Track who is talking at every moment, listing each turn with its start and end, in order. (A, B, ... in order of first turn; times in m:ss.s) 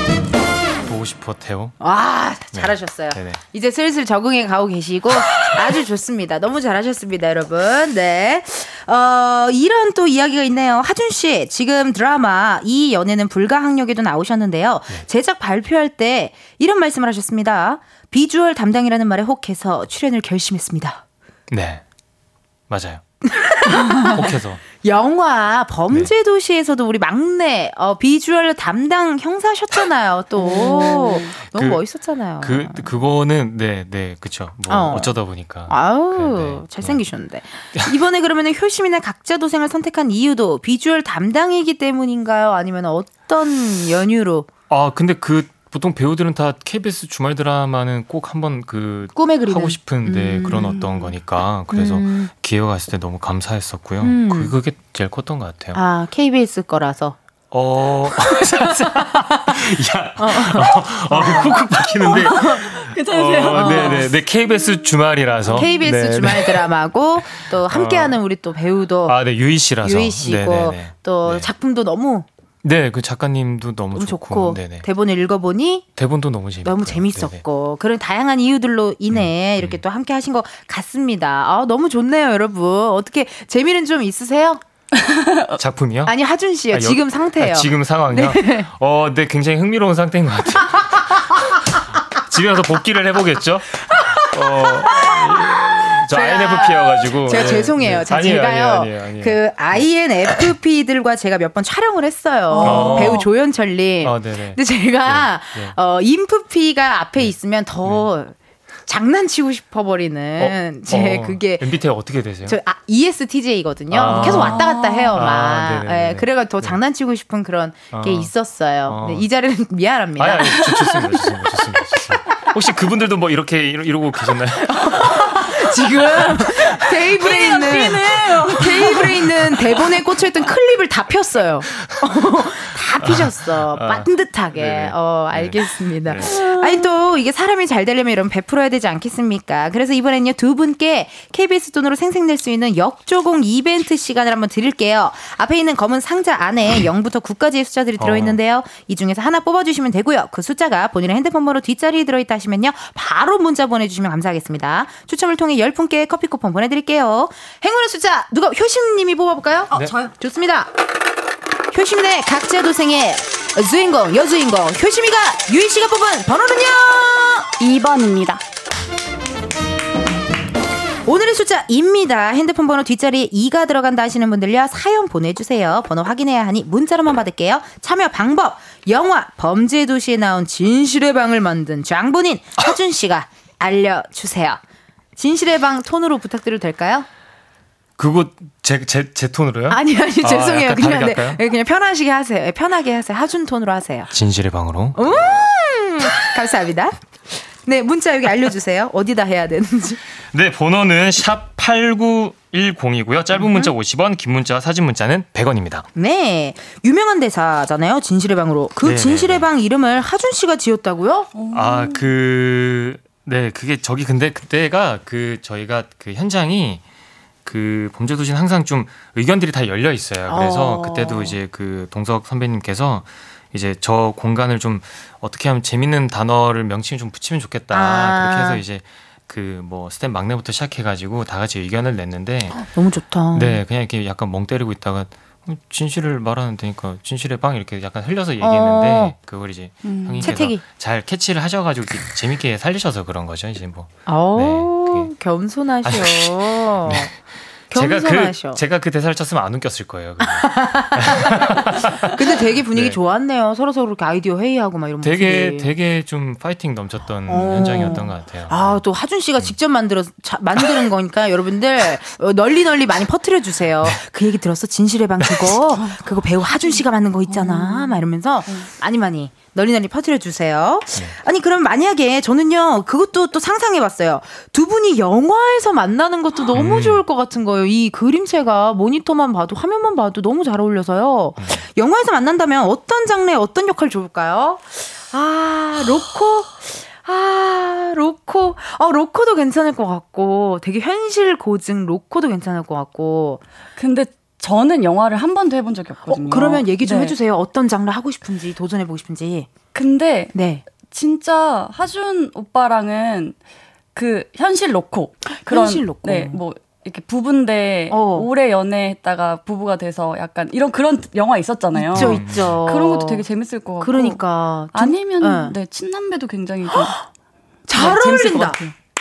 0:00.8-0:01.8 A
0:01.8-0:21.0 B
0:02.5-0:03.4 A
0:21.5-0:21.8 A
0:22.7-0:23.0 A
0:23.2-0:24.3 B
0:24.0-0:24.6 A
0:24.8-0:32.9 B
0:30.4-0:31.4 C
0:31.4-0:31.8 A
0:32.4-0:37.0 A
0:34.7-0:44.5 B
0:44.7-0:55.8 A
0:49.1-0:50.9 B
0:51.7-0:52.3 B
0:54.0-0:54.5 B
0:55.7-0:57.2 B
0:57.5-1:06.7 A
1:00.2-1:02.7 B
1:02.3-1:04.1 C
1:03.5-1:04.1 B
1:05.5-1:09.2 B
1:07.4-1:08.2 A
1:09.0-1:11.5 A
1:09.8-1:12.3 B
1:12.6-1:14.9 A
1:13.9-1:15.9 B
1:16.0-1:17.4 A
1:16.6-1:24.6 B
1:19.1-1:19.8 A
1:24.9-1:25.6 C
1:25.6-1:26.1 A
1:26.0-1:28.7 B
1:26.7-1:39.8 A
1:34.5-1:48.4 B
1:42.5-1:43.2 C
1:42.6-1:43.2 A
1:44.0-1:45.8 A
1:48.9-1:51.7 B
1:50.4-1:52.6 A
1:52.4-2:00.6 B
1:53.9-1:56.8 A
1:54.1-1:55.2 C
1:57.9-1:58.3 A
1:58.8-1:59.3 A
2:00.2-2:05.2 A
2:04.6-2:40.7 B
2:06.0-2:06.4 C
2:07.1-2:09.3 C
2:13.0-2:16.3 A
2:16.3-2:16.6 C
2:28.0-2:28.4 A
2:41.7-2:47.5 B
2:47.6-2:48.4 C
2:51.0-3:04.6 B
3:05.2-3:07.1 B
3:08.0-3:11.4 A
3:09.7-3:14.1 B
3:14.1-3:15.0 A
3:15.0-3:20.0 B
3:20.3-3:25.9 A
3:23.3-3:23.7 B
3:26.0-3:31.3 B
3:28.8-3:29.5 A
3:31.3-3:32.0 C
3:31.5-3:36.8 A
3:37.4-3:52.6 A
3:40.3-3:41.4 B
3:47.7-3:48.6 B
3:52.6-3:53.6 B
3:53.3-4:05.1 A
3:58.4-3:59.1 B
3:59.8-4:00.3 C
4:00.2-4:00.6 B
4:04.1-4:07.1 B
4:05.8-4:07.1 A
4:07.7-4:08.6 B
4:07.7-4:13.0 A
4:10.2-4:15.7 B
4:15.0-4:18.8 A
4:17.3-4:53.4 B
4:25.2-4:25.5 A
4:27.3-4:28.7 C
4:36.5-4:37.0 A
4:53.8-4:57.2 C
4:56.1-4:59.5 B
4:59.7-5:03.4 C
5:00.3-5:00.6 B
5:03.9-5:14.2 C
5:05.4-5:06.4 B
5:07.9-5:08.3 B
5:11.7-5:13.2 B
5:11.9-5:12.6 A
5:13.8-5:15.6 B
5:14.7-5:17.0 C
5:16.7-5:17.0 B
5:17.7-5:18.6 B
5:17.7-5:18.7 C